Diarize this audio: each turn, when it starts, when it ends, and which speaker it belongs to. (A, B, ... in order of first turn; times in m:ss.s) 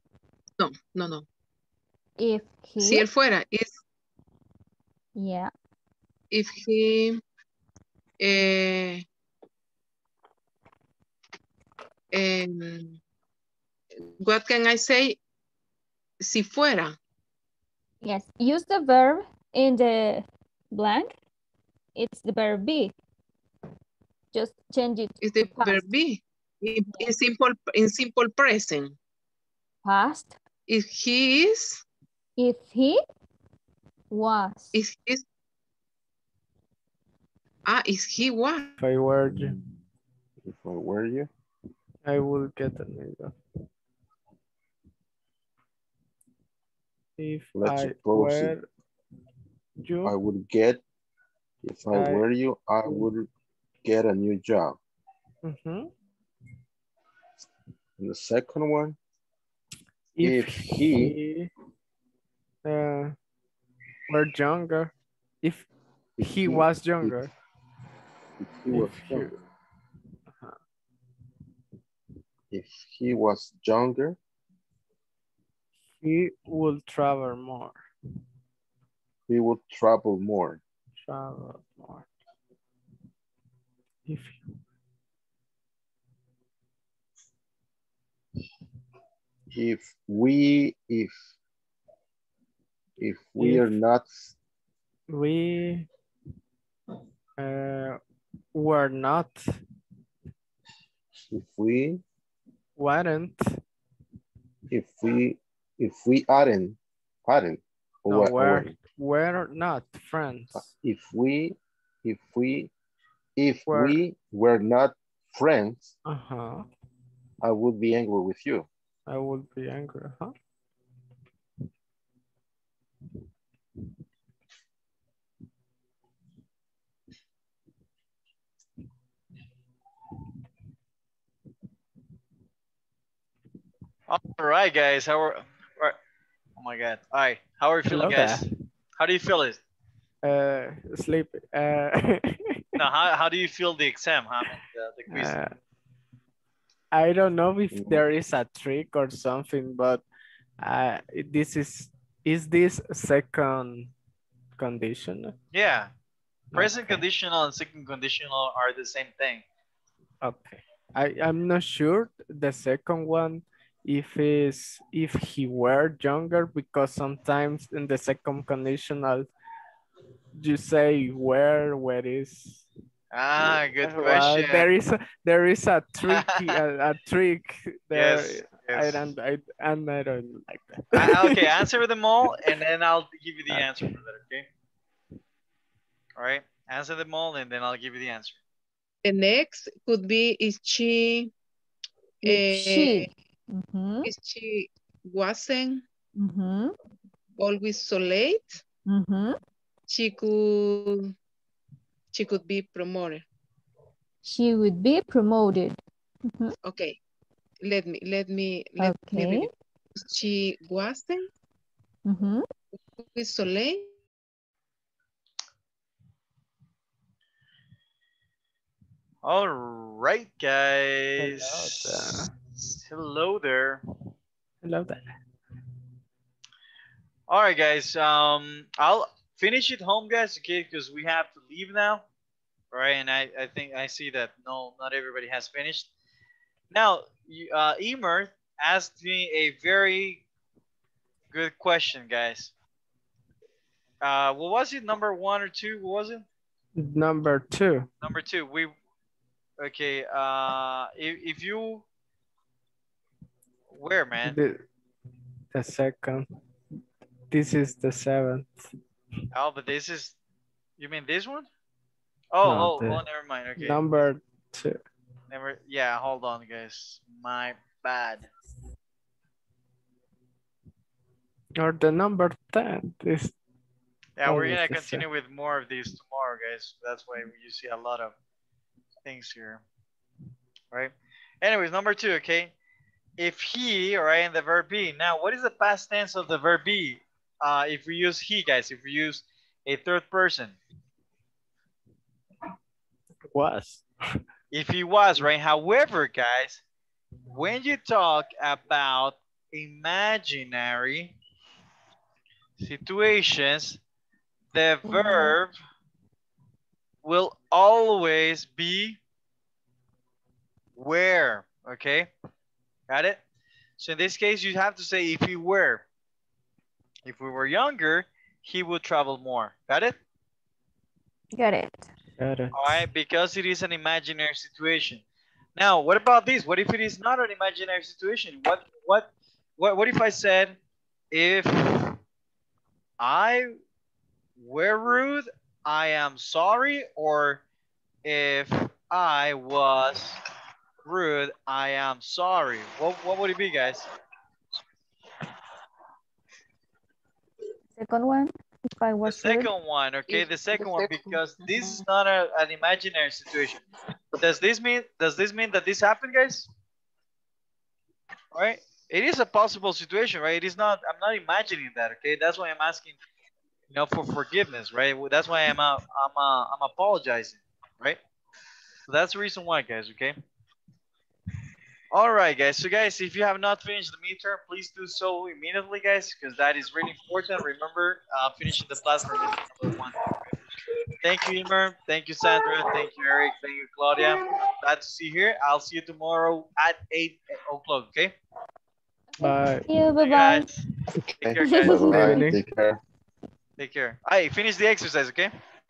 0:00.6-0:01.2 A
0:02.2-0:03.1 B
0:02.8-0:03.7 A
0:05.1-0:05.5 B
0:06.3-0:07.2 A
0:08.2-0:09.0 A
0:12.1-0:13.0 A
0:14.2-0:15.2 A
0:16.2-0:17.0 A
0:18.0-0:21.1 B
0:22.0-0:22.9 B
0:24.3-0:25.8 B
0:25.2-0:29.0 A
0:29.8-0:30.4 B
0:30.7-0:31.8 A
0:32.4-0:33.0 B
0:34.1-0:34.7 B
0:34.7-0:35.2 A
0:37.7-0:38.7 A
0:38.8-0:39.6 C
0:39.3-0:39.8 D
0:40.4-0:41.3 D
0:42.0-0:43.3 C
0:47.2-0:48.6 C
0:47.5-0:48.6 D
0:49.8-0:50.1 C
0:50.0-0:50.8 D
0:51.6-0:53.3 D
0:51.9-0:52.2 C
0:53.8-0:54.8 D
0:55.4-0:55.9 C
0:58.0-0:59.0 D
1:00.2-1:01.5 C
1:00.2-1:01.1 D
1:02.6-1:03.1 C
1:04.1-1:05.7 C
1:06.2-1:07.2 D
1:06.2-1:07.3 C
1:08.4-1:09.3 D
1:08.7-1:09.4 C
1:12.5-1:14.2 D
1:16.0-1:17.8 C
1:19.3-1:20.6 D
1:21.0-1:22.1 C
1:24.0-1:24.4 C
1:29.5-1:31.1 D
1:33.0-1:34.3 D
1:33.4-1:33.7 C
1:35.1-1:35.9 C
1:37.4-1:38.0 C
1:38.5-1:39.3 C
1:41.3-1:42.0 D
1:42.8-1:43.4 C
1:44.7-1:48.8 D
1:48.1-1:50.7 C
1:50.7-1:52.7 D
1:53.4-1:55.9 D
1:53.7-1:54.0 C
1:56.0-1:56.6 C
1:57.4-1:58.7 D
1:59.1-2:00.3 C
2:14.1-2:16.0 E
2:16.6-2:18.5 E
2:17.9-2:18.5 C
2:19.0-2:19.6 E
2:20.2-2:22.8 C
2:22.8-2:25.4 E
2:25.1-2:25.5 C
2:26.9-2:30.0 C
2:27.7-2:28.0 D
2:30.6-2:33.9 C
2:34.6-2:35.3 C
2:35.5-2:35.9 E
2:36.5-2:37.0 C
2:36.5-2:39.4 E
2:40.2-2:49.3 C
2:50.4-2:52.6 C
2:53.1-2:54.7 E
2:53.4-3:01.7 C
2:56.1-2:56.6 E
2:57.9-2:59.1 E
3:00.9-3:04.5 E
3:03.5-3:04.0 C
3:06.2-3:08.4 E
3:09.0-3:11.3 A
3:12.2-3:13.1 A
3:12.2-3:14.1 B
3:14.0-3:15.8 A
3:16.2-3:16.7 B
3:17.4-3:18.6 A
3:18.9-3:19.4 B
3:19.9-3:21.1 A
3:22.1-3:23.2 A
3:24.2-3:26.5 B
3:26.6-3:26.9 A
3:27.6-3:31.3 A
3:28.8-3:29.5 B
3:32.0-3:32.4 B
3:33.0-3:33.9 A
3:39.2-3:43.8 E
3:41.2-3:42.3 C
3:44.6-3:45.0 C
3:47.3-3:52.0 E
3:52.7-3:55.9 E
3:56.7-4:00.2 E
4:01.3-4:02.5 E
4:04.0-4:06.2 E
4:06.8-4:07.9 C
4:08.0-4:08.7 E
4:09.6-4:11.8 E
4:13.7-4:14.4 E
4:14.2-4:14.6 C
4:15.5-4:16.3 C
4:17.3-4:18.6 C
4:19.3-4:20.1 E
4:20.8-4:21.5 E
4:22.3-4:24.1 E
4:22.4-4:23.0 C
4:23.6-4:24.8 C
4:25.3-4:28.2 E
4:31.6-4:33.3 C
4:34.2-4:38.1 E
4:34.2-4:35.0 C
4:39.0-4:39.6 E
4:40.7-4:42.5 E
4:43.2-4:50.6 E
4:53.3-4:53.8 C
4:54.5-4:56.6 E
4:57.3-5:01.2 E
5:02.6-5:03.8 E
5:04.5-5:05.6 E
5:04.9-5:05.3 A
5:07.0-5:09.0 E
5:10.8-5:12.1 E
5:12.9-5:13.2 E
5:13.8-5:15.8 E
5:17.0-5:20.0 E
5:21.3-5:21.9 B
5:22.2-5:22.8 C
5:22.5-5:25.0 E
5:25.6-5:30.6 E
5:31.1-5:32.0 E
5:33.0-5:33.6 E
5:34.4-5:37.4 E
5:38.0-5:40.2 E
5:40.8-5:43.9 E
5:47.8-5:49.5 B
5:49.0-5:53.6 E
5:50.1-5:51.8 A
5:54.2-5:56.5 E
5:58.3-6:03.0 E
6:03.7-6:08.0 E
6:08.9-6:10.2 E
6:11.9-6:20.0 E
6:21.0-6:28.2 E
6:29.1-6:30.4 B
6:29.2-6:29.7 C
6:30.0-6:30.6 E
6:31.2-6:31.9 E
6:31.2-6:32.8 D
6:31.5-6:32.2 B
6:31.8-6:32.4 C
6:33.6-6:35.3 E